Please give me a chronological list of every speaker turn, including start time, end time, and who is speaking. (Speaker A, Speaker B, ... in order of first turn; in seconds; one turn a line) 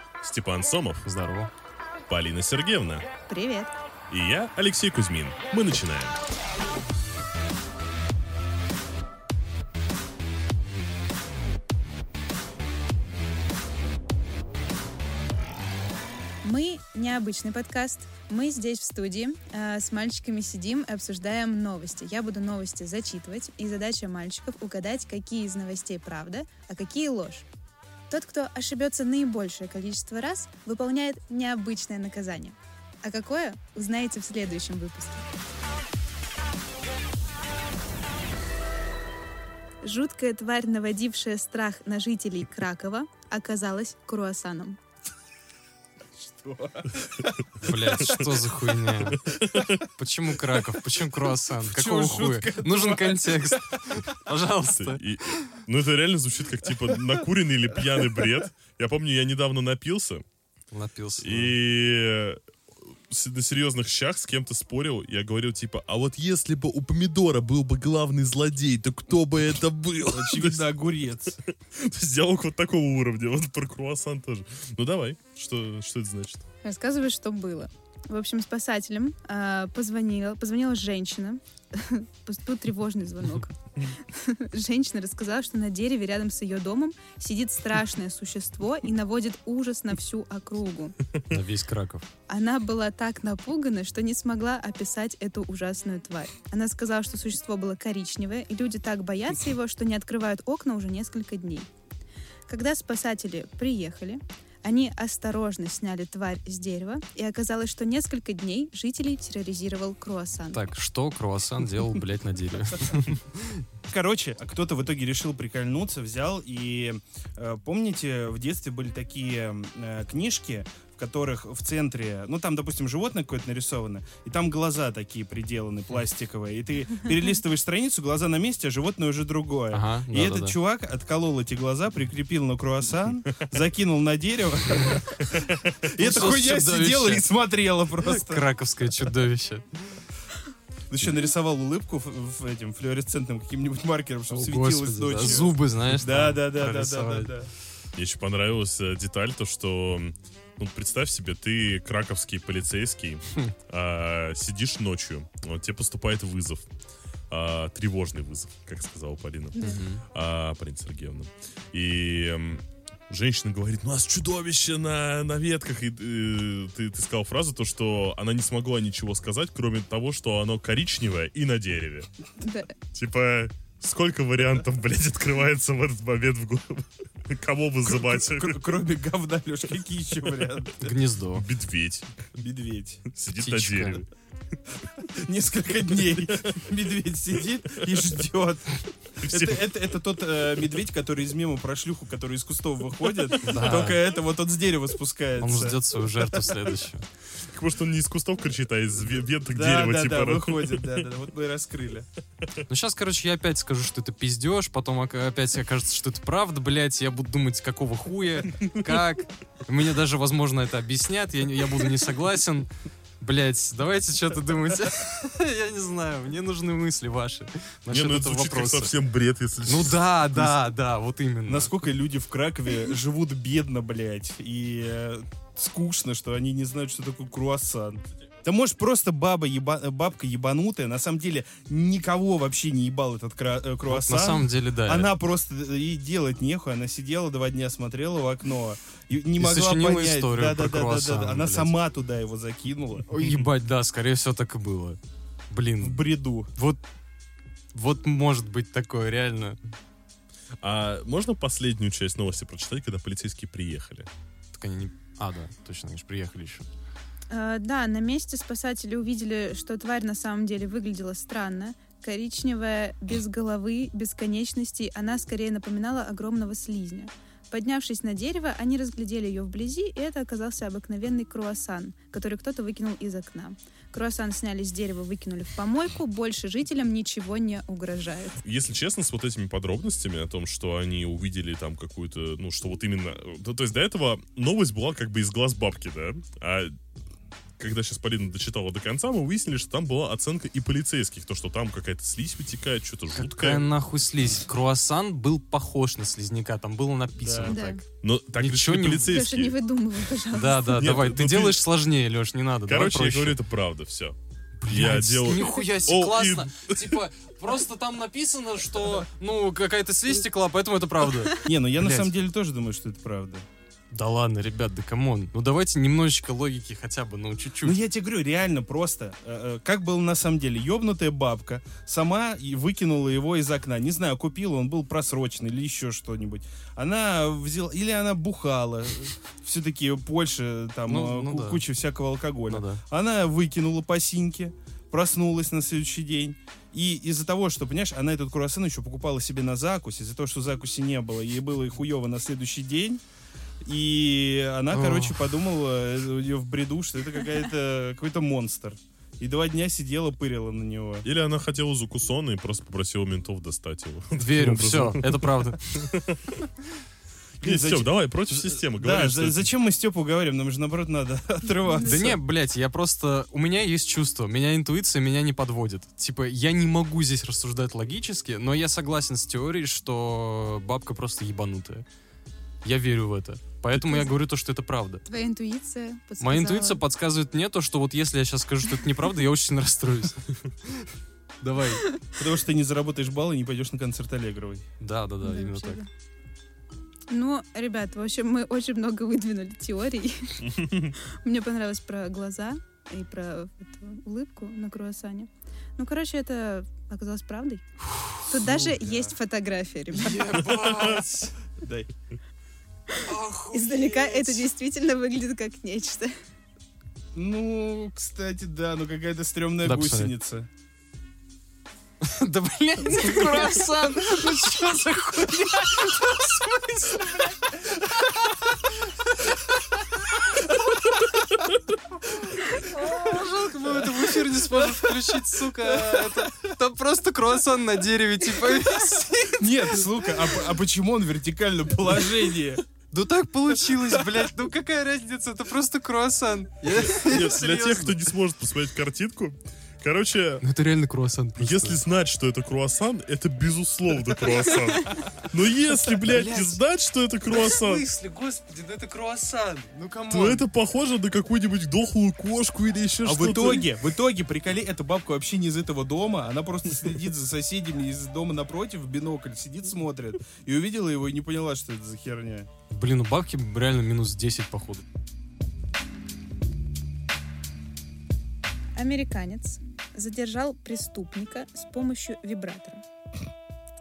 Speaker A: 0.2-1.1
Speaker B: 1.0-1.5
Speaker A: 2.1-3.1
Speaker C: 3.3-3.7
Speaker A: 4.1-6.2
Speaker C: 16.4-27.5
Speaker C: 28.1-35.2
Speaker C: 39.8-44.8
Speaker D: 46.1-48.3
Speaker B: 47.6-55.4
Speaker A: 49.1-49.8
Speaker D: 51.7-54.0
Speaker A: 54.7-60.2
Speaker B: 60.7-61.5
Speaker A: 61.2-62.4
Speaker A: 63.1-70.7
Speaker D: 70.1-71.4
Speaker A: 71.7-76.4
Speaker C: 76.6-91.0
Speaker B: 91.3-92.0
Speaker C: 92.3-101.7
Speaker C: 102.5-110.6
Speaker B: 110.5-113.6
Speaker D: 113.9-138.5
Speaker B: 129.7-130.6
Speaker A: 135.3-135.7
Speaker B: 135.9-137.3
Speaker B: 138.0-140.0
Speaker D: 140.9-147.5
Speaker B: 144.3-147.3
Speaker A: 148.0-156.7
Speaker A: 157.3-172.1
Speaker C: 159.6-159.8
Speaker B: 159.6-160.0
Speaker C: 172.4-172.7
Speaker A: 172.9-178.6
Speaker D: 177.9-180.9
Speaker B: 180.8-181.4
Speaker A: 181.3-182.2
Speaker D: 182.3-183.1
Speaker A: 183.1-184.1
Speaker B: 183.4-184.0
Speaker D: 184.9-196.4
Speaker A: 189.2-189.7
Speaker B: 193.4-194.0
Speaker B: 195.4-197.1
Speaker A: 197.4-201.0
Speaker D: 199.5-202.1
Speaker B: 202.7-212.7
Speaker B: 213.2-218.9
Speaker A: 217.9-220.1
Speaker B: 219.7-221.7
Speaker D: 221.5-243.1
Speaker B: 233.9-235.1
Speaker B: 239.4-241.7
Speaker B: 243.1-245.0
Speaker B: 245.5-246.8
Speaker D: 245.8-246.5
Speaker B: 247.7-249.6
Speaker A: 250.6-254.1
Speaker B: 254.5-256.7
Speaker C: 257.3-278.4
Speaker A: 278.4-286.8
Speaker A: 287.6-293.6
Speaker B: 293.2-297.8
Speaker D: 297.2-297.6
Speaker C: 297.5-297.8
Speaker A: 298.0-299.6
Speaker B: 298.4-299.2
Speaker C: 299.0-300.8
Speaker B: 300.3-303.4
Speaker A: 300.5-301.6
Speaker A: 302.7-304.1
Speaker B: 304.6-312.1
Speaker A: 304.7-307.0
Speaker D: 311.4-313.4
Speaker B: 313.9-317.8
Speaker D: 317.6-343.0
Speaker B: 330.9-331.6
Speaker B: 332.5-332.8
Speaker D: 343.6-351.1
Speaker B: 344.7-345.2
Speaker A: 351.0-356.4
Speaker B: 354.2-355.9
Speaker A: 357.4-359.5
Speaker D: 357.4-362.2
Speaker C: 361.6-362.1
Speaker B: 361.8-371.9
Speaker B: 372.6-375.1
Speaker C: 373.7-374.1
Speaker C: 375.1-376.8
Speaker B: 376.2-380.9
Speaker B: 381.4-381.9
Speaker D: 382.2-384.6
Speaker B: 384.8-385.8
Speaker C: 385.2-385.9
Speaker C: 387.1-397.6
Speaker A: 390.4-390.9
Speaker C: 398.2-400.5
Speaker D: 398.4-399.2
Speaker B: 399.9-401.3
Speaker D: 401.6-401.9
Speaker C: 402.9-406.1
Speaker B: 403.0-404.4
Speaker D: 407.1-410.5
Speaker B: 409.6-410.1
Speaker B: 412.0-418.6
Speaker C: 412.8-413.8
Speaker B: 419.9-420.6
Speaker B: 422.1-430.2
Speaker D: 423.8-424.3
Speaker D: 425.6-426.1
Speaker D: 429.3-432.6
Speaker B: 432.9-438.1
Speaker A: 436.7-440.4
Speaker B: 440.4-441.8
Speaker A: 441.4-447.9
Speaker B: 446.0-446.6
Speaker B: 447.3-450.4
Speaker A: 450.1-453.7
Speaker D: 453.1-462.5
Speaker B: 462.7-464.8
Speaker C: 468.8-472.8